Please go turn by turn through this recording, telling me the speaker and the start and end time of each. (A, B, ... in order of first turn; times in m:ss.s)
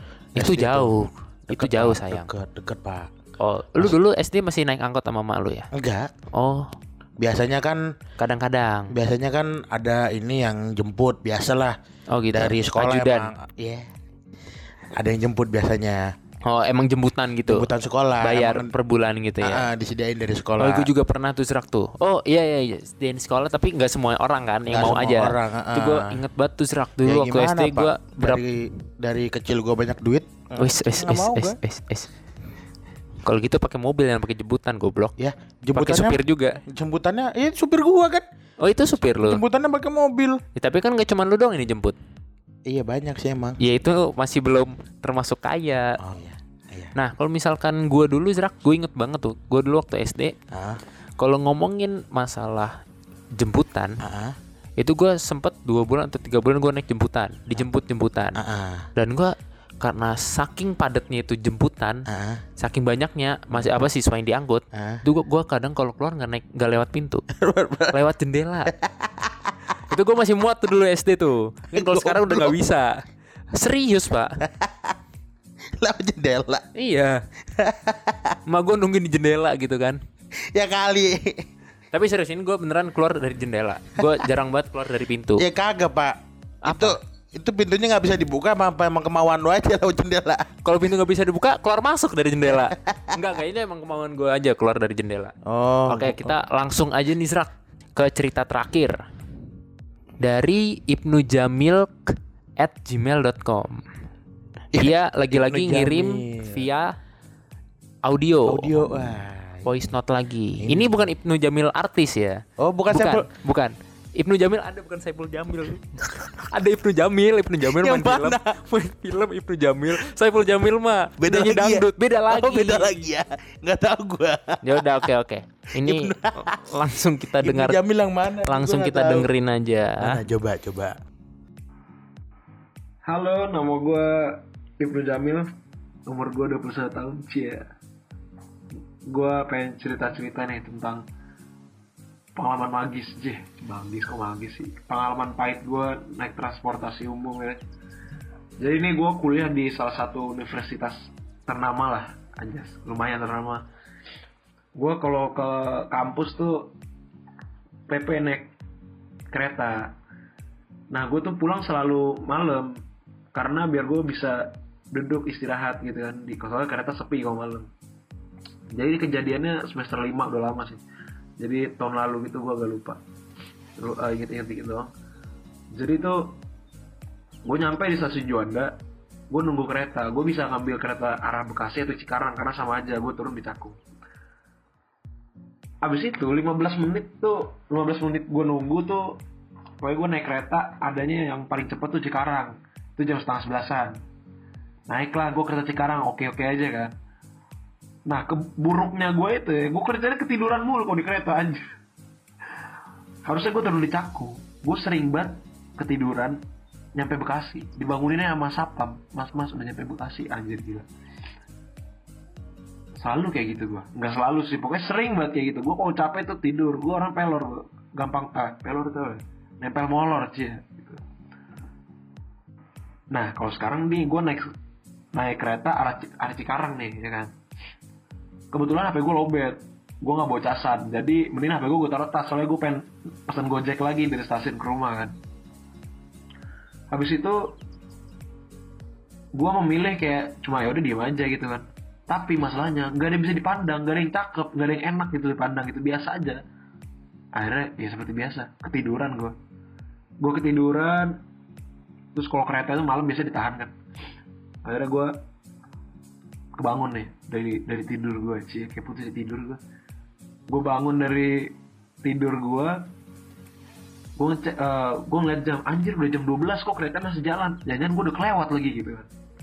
0:00.4-0:03.1 A
0:00.4-0:02.3 B
0:03.4-0:05.7 B
0:05.7-0:06.1 A
0:06.3-0:06.7 B
0:07.2-0:07.9 A
0:08.2-0:08.9 B
0:08.9-0:11.8 A
0:12.1-0:13.3 B
0:12.3-0:13.9 A
0:14.9-0:16.1 A
0:16.4-0:17.7 B
0:17.5-0:18.7 A
0:18.2-0:19.7 B
0:19.4-0:20.9 A
0:20.6-0:28.4 B
0:24.7-0:26.2 A
0:27.0-0:31.6 A
0:30.6-0:32.1 B
0:33.2-0:35.2 B
0:35.2-0:38.2 A
0:35.8-0:36.6 B
0:38.6-0:39.4 B
0:39.2-0:40.4 A
0:40.6-0:42.0 B
0:42.7-0:43.6 A
0:43.6-0:46.0 B
0:46.0-0:46.9 A
0:47.0-0:50.4 B
0:50.5-0:50.8 A
0:51.2-0:52.8 B
0:53.4-0:54.0 B
0:54.0-0:54.4 A
0:54.8-0:58.4 B
0:58.4-0:58.9 A
0:59.0-1:02.1 B
1:02.1-1:02.4 A
1:02.6-1:07.2 B
1:04.7-1:05.0 A
1:07.4-1:08.0 A
1:07.9-1:08.7 B
1:08.7-1:09.5 A
1:09.9-1:13.0 B
1:11.7-1:12.6 A
1:13.5-1:14.4 B
1:14.4-1:14.9 A
1:15.8-1:16.7 A
1:16.8-1:17.2 B
1:17.6-1:18.4 A
1:18.5-1:20.0 B
1:20.5-1:21.5 A
1:21.9-1:25.4 B
1:25.4-1:30.5 A
1:26.6-1:27.0 B
1:30.6-1:35.4 B
1:32.5-1:33.2 A
1:35.4-1:36.4 A
1:35.9-1:39.0 B
1:40.2-1:43.8 B
1:44.7-1:46.7 A
1:44.8-1:47.0 B
1:48.0-1:48.8 B
1:48.5-1:49.7 A
1:49.6-2:03.0 B
1:50.6-1:51.0 A
1:52.6-1:53.3 A
1:57.6-1:58.6 A
2:01.2-2:04.9 A
2:04.6-2:07.8 B
2:05.8-2:06.7 A
2:07.4-2:09.3 A
2:08.5-2:10.2 B
2:10.0-2:11.0 A
2:13.0-2:15.5 C
2:16.1-2:17.7 C
2:19.1-2:21.0 C
2:22.4-2:27.6 C
2:28.6-2:33.7 C
2:34.8-2:36.7 C
2:37.9-2:38.5 C
2:39.3-2:40.0 C
2:40.9-2:42.8 C
2:43.3-2:47.7 C
2:48.7-2:50.8 C
2:51.4-2:53.0 C
2:53.8-2:54.9 C
2:55.7-2:56.4 C
2:57.4-2:58.8 C
2:59.3-3:03.8 C
3:05.8-3:09.2 C
3:09.8-3:14.0 C
3:14.9-3:16.9 C
3:18.1-3:21.7 C
3:23.2-3:26.4 C
3:27.0-3:30.9 C
3:33.0-3:41.0 C
3:43.1-3:44.5 C
3:45.1-3:47.3 C
3:48.5-3:55.2 C
3:56.9-3:57.5 C
3:59.3-4:06.4 C
4:07.3-4:09.4 C
4:10.2-4:11.2 C
4:12.2-4:13.7 C
4:14.6-4:15.2 C
4:16.6-4:19.6 C
4:20.5-4:22.9 C
4:24.2-4:29.1 C